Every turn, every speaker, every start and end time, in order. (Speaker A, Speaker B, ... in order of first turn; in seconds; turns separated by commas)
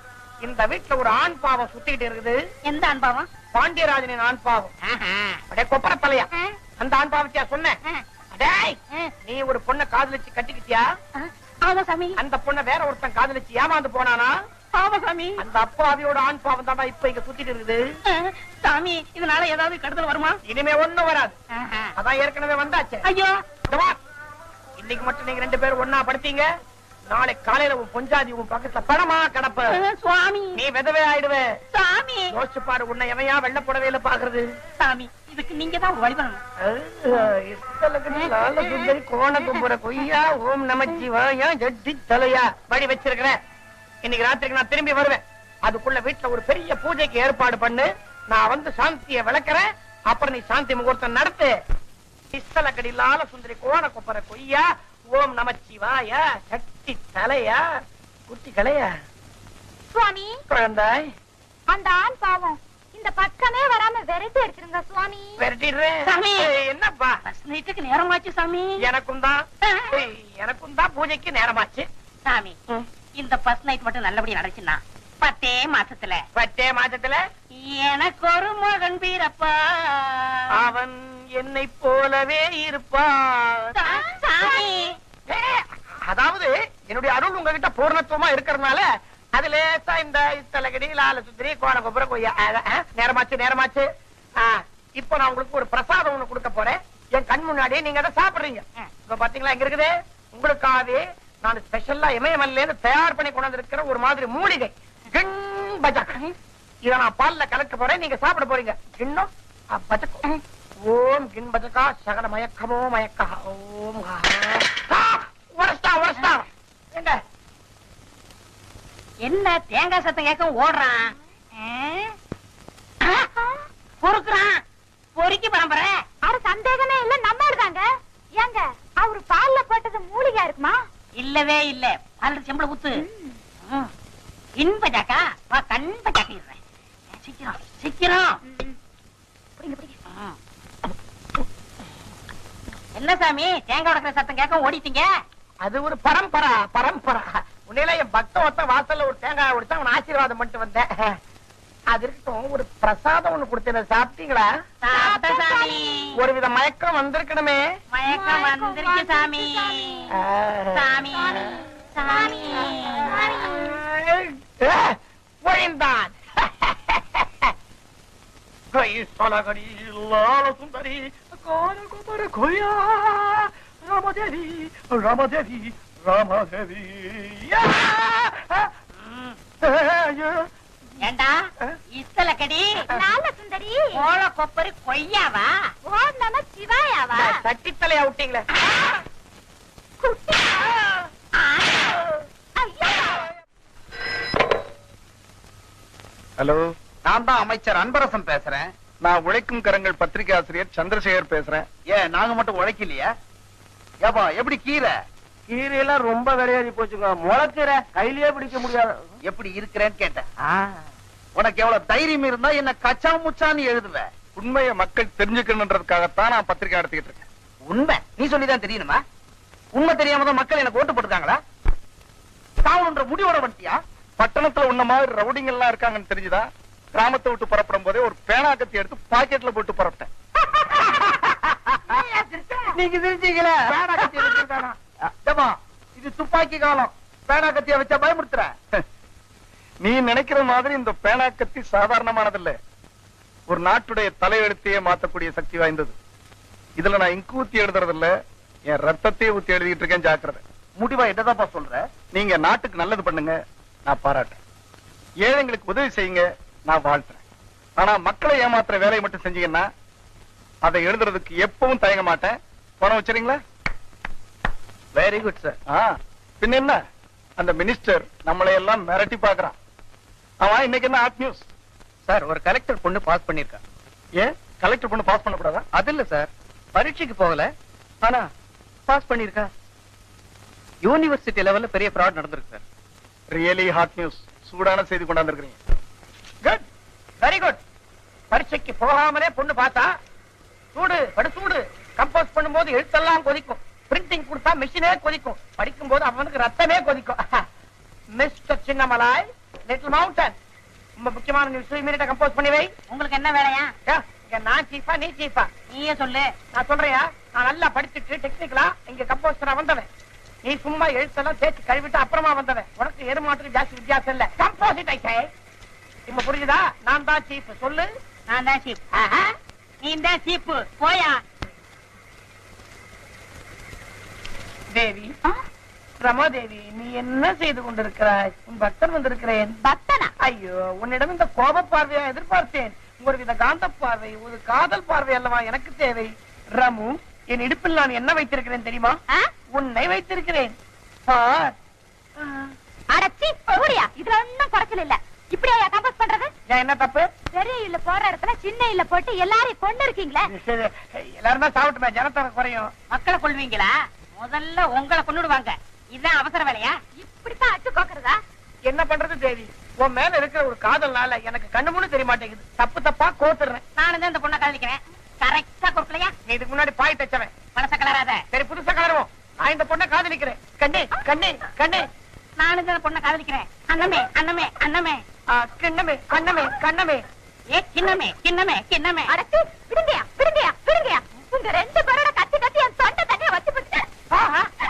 Speaker A: 0.4-2.4, Speaker B: 2.6-3.3, Speaker A: 3.5-4.7, Speaker B: 4.8-5.4, Speaker A: 5.5-7.8, Speaker A: 8.3-10.9, Speaker B: 11.2-12.2, Speaker A: 12.2-14.3, Speaker B: 14.7-15.4, Speaker A: 15.4-17.8, Speaker B: 18.1-20.4, Speaker A: 20.4-21.4, Speaker B: 21.5-21.9, Speaker A: 22.0-23.0, Speaker B: 23.0-23.3, Speaker A: 23.7-24.0, Speaker A: 24.8-26.5, Speaker A: 27.1-29.8, Speaker B: 29.7-30.6, Speaker A: 30.5-31.5, Speaker B: 31.7-32.3, Speaker A: 32.3-34.5, Speaker B: 34.8-36.4, Speaker A: 36.6-43.4, Speaker B: 38.1-38.9, Speaker A: 44.0-51.5, Speaker A: 52.3-57.6, Speaker A: 58.3-58.9, Speaker C: 59.9-60.4, Speaker A: 60.5-61.1, Speaker C: 61.7-65.4, Speaker A: 65.4-67.2, Speaker B: 66.0-66.5, Speaker B: 67.2-68.8, Speaker A: 68.8-71.9, Speaker B: 69.6-70.0, Speaker B: 72.2-72.6, Speaker B: 73.2-76.2, Speaker A: 76.3-77.2, Speaker B: 77.5-80.5, Speaker A: 80.5-83.7, Speaker B: 83.7-85.0, Speaker A: 85.3-93.9, Speaker A: 94.4-106.2, Speaker A: 106.8-110.2, Speaker A: 110.8-117.2, Speaker B: 119.2-122.1, Speaker C: 123.1-123.7, Speaker B: 124.0-124.6, Speaker B: 125.2-126.0, Speaker C: 126.2-130.8, Speaker B: 131.2-132.9, Speaker C: 133.0-133.4, Speaker B: 133.7-133.9, Speaker B: 134.6-136.6, Speaker B: 137.1-138.4, Speaker C: 138.4-138.8, Speaker C: 139.6-139.9, Speaker B: 140.1-140.4, Speaker B: 142.9-145.1, Speaker A: 145.6-151.2, Speaker A: 151.9-154.5, Speaker B: 154.8-156.1, Speaker C: 154.9-156.0, Speaker A: 156.2-157.7, Speaker B: 157.9-160.1, Speaker C: 158.1-160.0, Speaker A: 160.2-161.0, Speaker B: 160.7-163.3, Speaker C: 162.2-163.6, Speaker A: 163.2-167.5, Speaker A: 168.7-175.6, Speaker A: 176.2-176.5, Speaker D: 176.2-176.8, Speaker A: 177.2-178.6, Speaker A: 179.8-180.2, Speaker B: 181.0-181.3, Speaker B: 181.9-182.8, Speaker C: 182.9-183.9, Speaker B: 184.0-185.5, Speaker C: 185.8-187.4, Speaker A: 187.1-188.4, Speaker C: 190.0-190.9, Speaker B: 191.3-192.0, Speaker C: 192.6-193.3, Speaker E: 196.4-196.6, Speaker D: 197.1-198.7, Speaker E: 199.0-201.7, Speaker D: 201.9-203.1, Speaker D: 204.0-204.9, Speaker D: 205.5-210.3, Speaker D: 211.3-214.1, Speaker E: 214.3-217.2, Speaker D: 217.7-219.0, Speaker D: 219.7-221.4, Speaker D: 222.6-223.8, Speaker E: 224.2-230.1, Speaker D: 231.1-231.6, Speaker B: 231.9-232.5, Speaker D: 232.7-234.4, Speaker A: 233.7-234.8, Speaker D: 235.2-238.5, Speaker E: 239.8-242.6, Speaker E: 243.5-245.9, Speaker E: 246.8-248.1, Speaker E: 248.7-250.4, Speaker D: 250.8-251.8, Speaker E: 252.1-254.4, Speaker E: 255.2-257.2, Speaker E: 257.8-259.7, Speaker E: 260.6-263.4, Speaker D: 264.9-265.5, Speaker E: 265.7-266.8, Speaker E: 267.4-269.6, Speaker E: 270.4-271.5, Speaker D: 272.1-273.6, Speaker E: 274.2-275.6, Speaker D: 275.8-276.2, Speaker D: 276.8-277.3, Speaker D: 279.0-279.5, Speaker D: 280.9-282.6, Speaker E: 283.3-285.6, Speaker A: 287.2-287.6, Speaker A: 288.3-289.9, Speaker A: 290.7-297.4, Speaker A: 298.1-300.3, Speaker A: 301.0-302.7, Speaker B: 302.9-303.7, Speaker A: 303.9-305.5, Speaker B: 305.7-306.3, Speaker A: 306.5-309.9, Speaker A: 310.4-315.3, Speaker A: 316.1-317.9, Speaker B: 318.3-318.8, Speaker A: 318.9-319.2, Speaker B: 319.8-321.2, Speaker A: 324.7-325.1, Speaker A: 326.0-329.6, Speaker B: 329.7-330.1, Speaker A: 330.2-339.0, Speaker A: 339.5-340.5, Speaker A: 341.1-341.5, Speaker A: 342.2-342.5, Speaker C: 342.9-346.3, Speaker A: 346.5-347.1, Speaker C: 347.3-350.3, Speaker A: 350.3-352.7, Speaker B: 352.9-356.8, Speaker C: 357.0-358.2, Speaker A: 358.7-363.6, Speaker B: 363.8-366.1, Speaker A: 366.3-367.3, Speaker B: 367.5-368.2, Speaker A: 368.3-371.9, Speaker B: 372.4-375.0, Speaker A: 375.3-377.0, Speaker B: 377.5-379.1, Speaker C: 379.1-383.8